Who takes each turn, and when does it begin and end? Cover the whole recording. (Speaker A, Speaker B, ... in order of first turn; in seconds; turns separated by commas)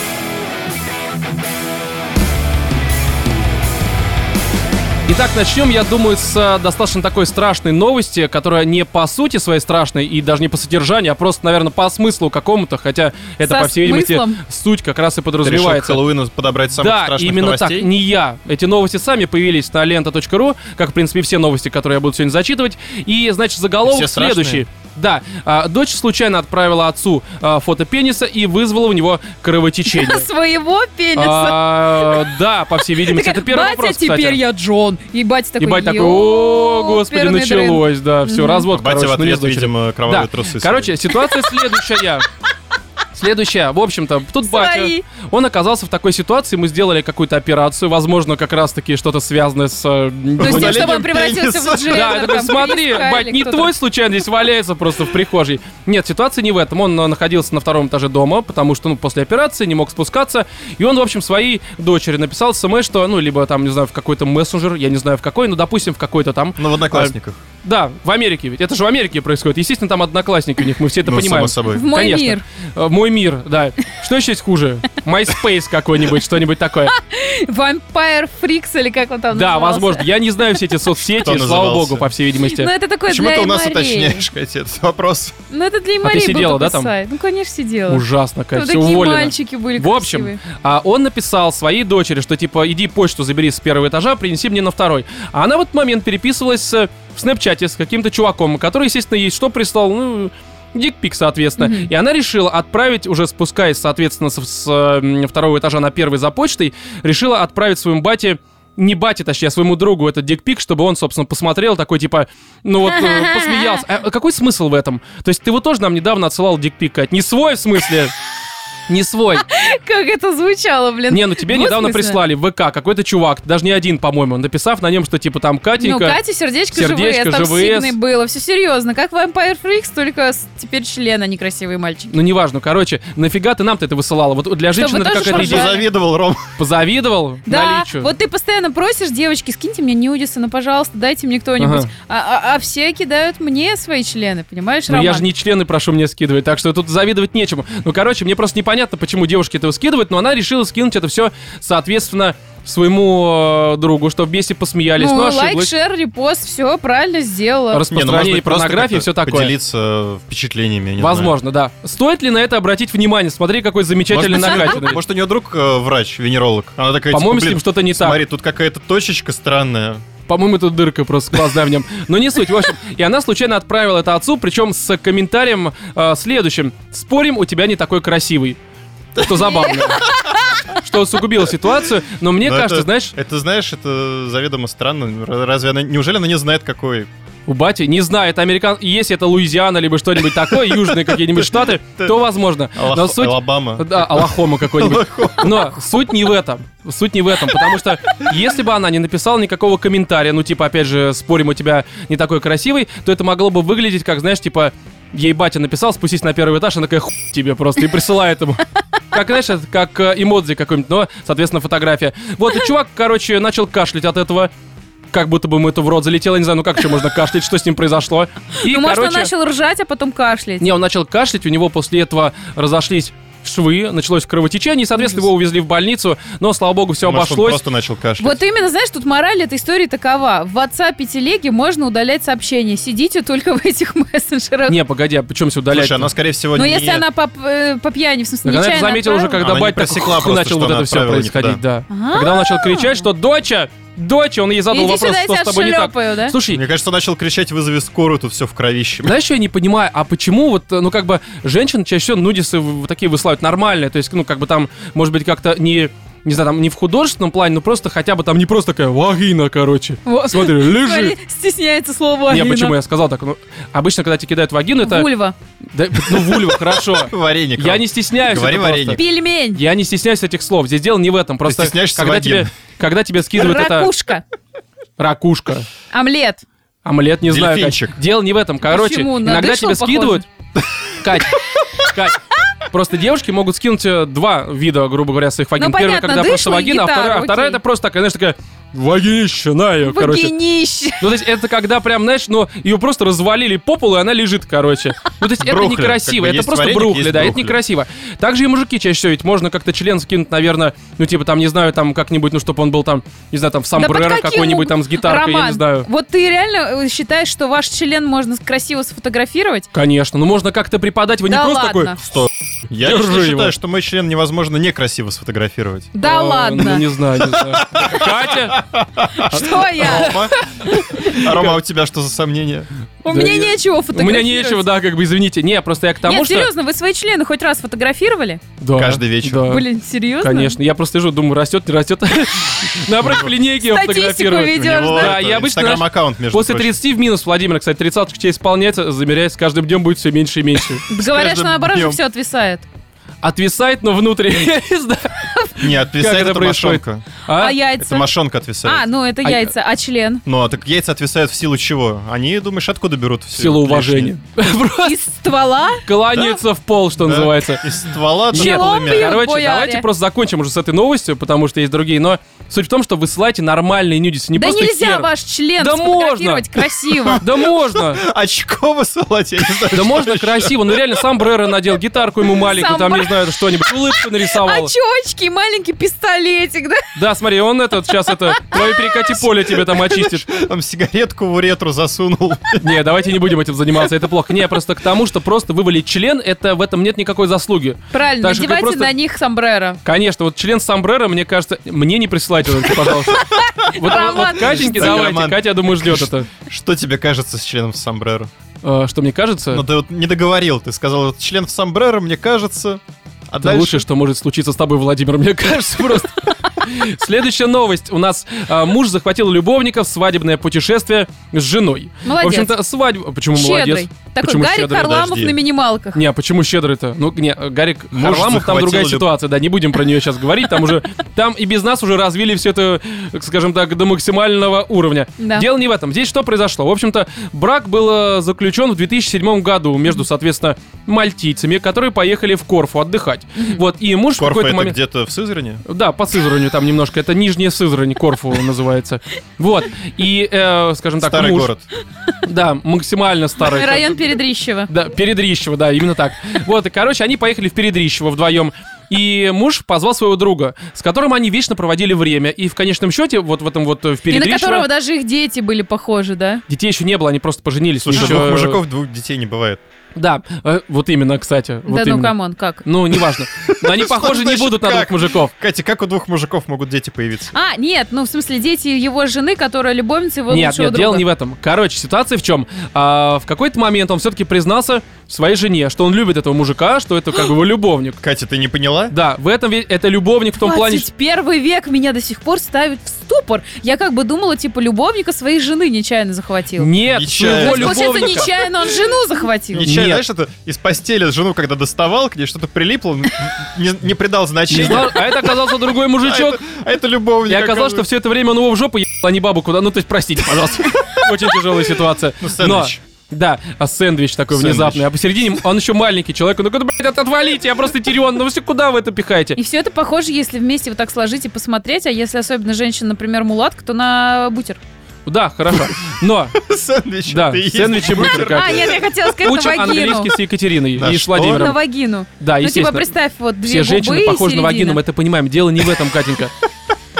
Speaker A: 5.1-16.0, Speaker B: 13.4-14.4, Speaker C: 15.4-17.9, Speaker A: 16.8-30.3, Speaker C: 23.8-24.6, Speaker B: 29.9-32.3, Speaker A: 31.2-34.4, Speaker B: 33.0-38.7, Speaker A: 35.6-42.3, Speaker C: 38.7-41.1, Speaker A: 43.1-50.9, Speaker B: 44.4-45.0, Speaker C: 50.4-52.2, Speaker B: 50.4-53.7, Speaker A: 51.9-67.1, Speaker C: 66.6-67.4, Speaker A: 67.6-77.0, Speaker C: 71.0-71.9, Speaker B: 71.7-72.4, Speaker B: 76.9-80.1, Speaker A: 79.3-82.7, Speaker C: 81.2-82.1, Speaker B: 82.5-84.2, Speaker C: 83.1-85.3, Speaker B: 85.5-90.4, Speaker A: 86.0-86.9, Speaker A: 87.9-118.1, Speaker B: 101.6-101.9, Speaker B: 112.8-113.8, Speaker A: 118.9-119.4, Speaker B: 119.4-122.2, Speaker A: 121.1-126.2, Speaker B: 125.8-132.1, Speaker A: 126.7-128.0, Speaker A: 132.1-135.8, Speaker B: 134.8-135.8, Speaker C: 135.2-136.5, Speaker A: 136.6-138.1, Speaker B: 137.5-145.3, Speaker A: 141.6-141.9, Speaker A: 144.9-155.7, Speaker B: 155.0-157.8, Speaker A: 157.7-159.5, Speaker C: 157.9-161.3, Speaker A: 161.0-165.0, Speaker C: 164.1-170.1, Speaker B: 164.3-164.9, Speaker A: 167.1-168.2, Speaker A: 170.3-178.6, Speaker A: 179.2-183.2, Speaker B: 179.3-180.8, Speaker C: 182.4-187.1, Speaker A: 187.5-214.5, Speaker C: 190.5-192.2, Speaker C: 192.7-195.8, Speaker A: 215.1-219.3, Speaker B: 218.6-220.7, Speaker A: 220.6-227.6, Speaker B: 225.0-225.2, Speaker C: 227.0-228.4, Speaker B: 228.2-234.8, Speaker A: 234.7-236.1, Speaker C: 235.7-237.1, Speaker B: 236.6-239.4, Speaker A: 238.4-246.6, Speaker C: 239.4-241.6, Speaker B: 241.9-243.1, Speaker B: 244.7-246.3, Speaker C: 246.5-249.2, Speaker A: 249.1-261.2, Speaker B: 260.1-262.8, Speaker A: 262.3-265.1, Speaker B: 264.8-265.3, Speaker A: 265.7-269.0, Speaker C: 266.1-269.0, Speaker B: 268.9-269.6, Speaker A: 269.5-273.9, Speaker C: 271.4-272.5, Speaker B: 273.3-274.2, Speaker A: 275.0-275.7, Speaker B: 275.9-276.4, Speaker A: 276.9-280.3, Speaker C: 277.2-277.9, Speaker B: 278.7-280.2, Speaker A: 281.0-290.3, Speaker B: 285.6-287.6, Speaker B: 289.8-291.1, Speaker A: 291.0-305.9, Speaker C: 295.4-297.6, Speaker B: 303.8-309.7, Speaker A: 309.7-312.0, Speaker B: 311.3-312.0, Speaker C: 312.0-315.9, Speaker A: 312.8-313.5, Speaker B: 315.9-316.9, Speaker A: 316.0-318.6, Speaker C: 317.2-322.7, Speaker B: 319.1-321.2, Speaker A: 319.8-320.3, Speaker A: 321.0-321.6, Speaker B: 323.0-324.6, Speaker A: 323.1-326.5, Speaker B: 326.1-328.4, Speaker A: 328.6-329.7, Speaker C: 328.8-329.5, Speaker B: 329.5-330.6, Speaker A: 330.2-340.9, Speaker B: 333.6-335.2, Speaker C: 334.5-336.8, Speaker C: 340.9-342.0, Speaker B: 340.9-342.7, Speaker A: 343.2-347.6, Speaker C: 345.6-347.1, Speaker B: 347.3-348.1, Speaker C: 347.8-348.8, Speaker B: 348.6-350.2, Speaker A: 349.2-349.5, Speaker C: 350.3-354.1, Speaker A: 353.4-355.0, Speaker B: 354.8-355.9, Speaker A: 355.9-357.7, Speaker C: 356.1-356.4, Speaker C: 357.0-359.1, Speaker A: 358.3-366.6, Speaker B: 358.3-359.9, Speaker B: 364.4-367.2, Speaker C: 367.1-371.2, Speaker A: 367.1-368.0, Speaker A: 369.7-374.7, Speaker B: 372.4-377.0, Speaker A: 377.0-380.4, Speaker B: 378.1-379.0, Speaker C: 379.5-382.9, Speaker A: 382.6-388.9, Speaker B: 387.9-389.8, Speaker A: 389.8-396.3, Speaker B: 393.1-395.1, Speaker C: 393.9-398.3, Speaker A: 398.6-399.6, Speaker C: 399.5-403.9, Speaker A: 403.4-415.0, Speaker B: 412.0-412.6, Speaker B: 413.3-416.0, Speaker C: 414.8-415.4, Speaker A: 415.9-434.8, Speaker C: 417.9-419.1, Speaker B: 425.2-425.5, Speaker B: 433.4-433.6, Speaker C: 434.2-435.6, Speaker A: 435.7-441.5, Speaker C: 441.0-441.6, Speaker A: 442.2-444.0, Speaker B: 443.4-444.7, Speaker A: 444.7-454.7, Speaker B: 454.1-456.4, Speaker A: 456.5-458.6, Speaker C: 457.8-459.6, Speaker A: 460.0-465.3, Speaker B: 461.7-462.6, Speaker C: 463.4-467.3, Speaker B: 467.3-471.1, Speaker A: 470.3-478.0, Speaker C: 478.0-478.9, Speaker A: 478.9-480.9, Speaker B: 480.4-486.7, Speaker A: 486.6-488.3, Speaker C: 486.9-488.2, Speaker B: 487.3-489.7, Speaker C: 489.5-497.9, Speaker A: 489.6-490.0, Speaker A: 494.5-496.4, Speaker A: 497.3-509.4, Speaker C: 500.8-501.1, Speaker C: 502.2-502.8, Speaker C: 504.3-504.9, Speaker B: 509.4-514.6, Speaker A: 515.1-516.4, Speaker C: 516.4-518.8, Speaker A: 517.1-521.6, Speaker B: 517.9-520.1, Speaker C: 520.8-521.5, Speaker B: 521.1-524.8, Speaker A: 522.2-522.9, Speaker A: 523.4-526.3